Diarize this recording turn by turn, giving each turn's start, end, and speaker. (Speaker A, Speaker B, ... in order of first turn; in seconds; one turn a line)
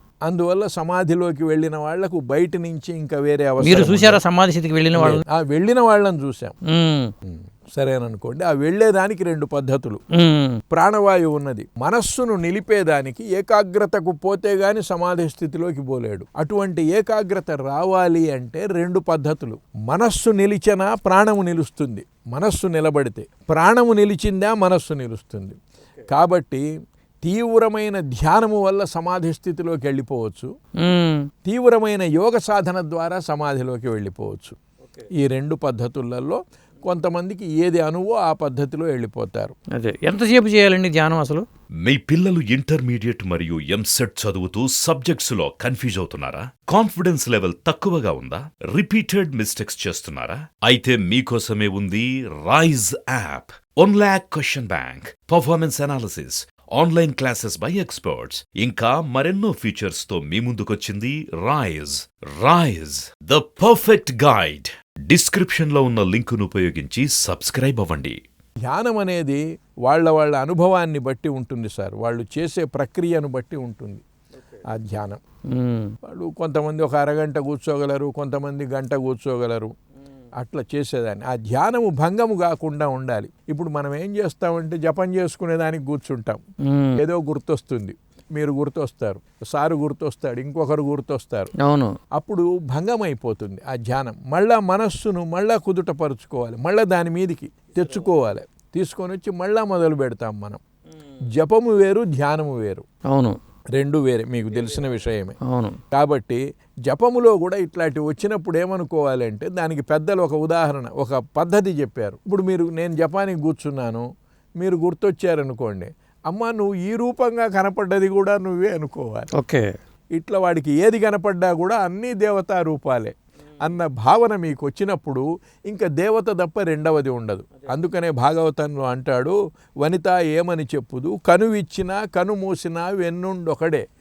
Speaker A: 0.3-4.2
Speaker B: 3.6-5.2
Speaker A: 5.0-6.6
Speaker B: 6.7-7.1
Speaker A: 7.3-10.0
Speaker B: 10.2-10.6
Speaker A: 10.7-25.6
Speaker A: 26.1-26.6
Speaker A: 27.2-30.5
Speaker B: 30.8-31.3
Speaker A: 31.5-34.6
Speaker A: 35.2-39.5
Speaker B: 39.8-41.5
Speaker C: 41.8-68.2
Speaker A: 68.7-74.0
Speaker A: 74.7-75.2
Speaker B: 75.5-75.9
Speaker A: 76.1-79.7
Speaker A: 80.4-86.4
Speaker B: 86.7-87.0
Speaker A: 87.0-91.5
Speaker B: 91.6-91.9
Speaker A: 92.2-100.6
Speaker A: 101.4-102.8
Speaker A: 103.8-105.4
Speaker B: 105.5-105.8
Speaker A: 105.9-114.0
Speaker A: 114.6-119.3
Speaker B: 119.4-119.6
Speaker A: 120.2-133.8